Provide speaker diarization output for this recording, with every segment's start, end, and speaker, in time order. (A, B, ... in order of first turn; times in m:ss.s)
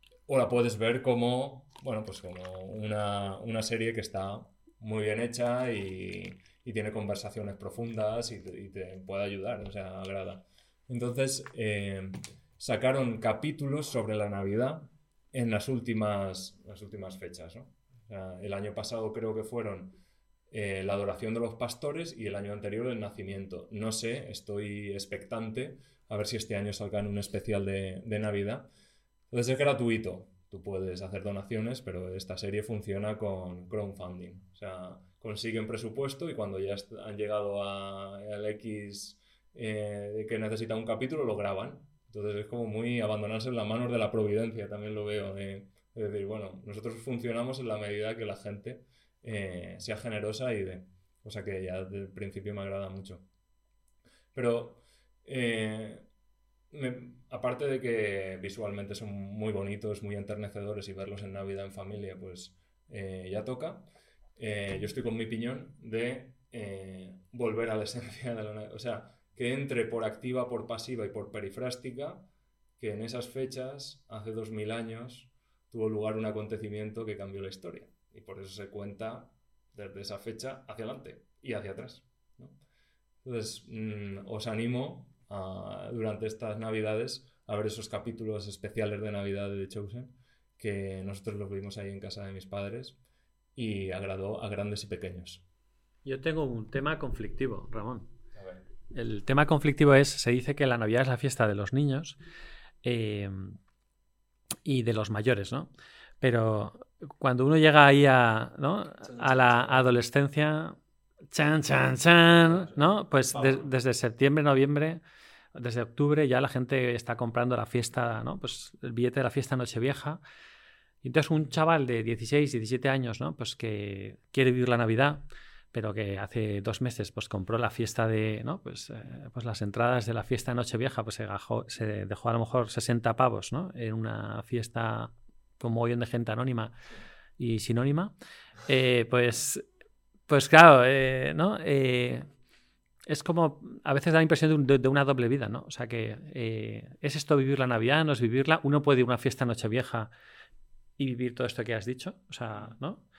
0:00.3-0:20.0 A
0:20.5-0:28.7 A
0:29.3-0:53.2 A
0:54.3-0:56.1 A
0:56.7-1:03.8 A
1:04.4-1:12.2 A
1:12.8-1:22.6 A
1:23.2-1:33.0 A
1:33.6-1:35.4 A
1:36.0-1:38.1 B
1:38.4-1:38.6 A
1:38.9-1:42.2 B
1:42.8-1:43.6 B
1:44.6-1:45.7 B
1:46.2-1:50.8 B
1:49.0-1:49.9 A
1:51.3-1:55.0 B
1:53.3-1:53.7 A
1:55.5-2:00.2 B
2:01.0-2:16.7 B
2:17.4-2:18.1 B
2:18.6-2:19.6 B
2:20.3-2:22.3 B
2:23.1-2:30.1 B
2:31.0-2:33.0 B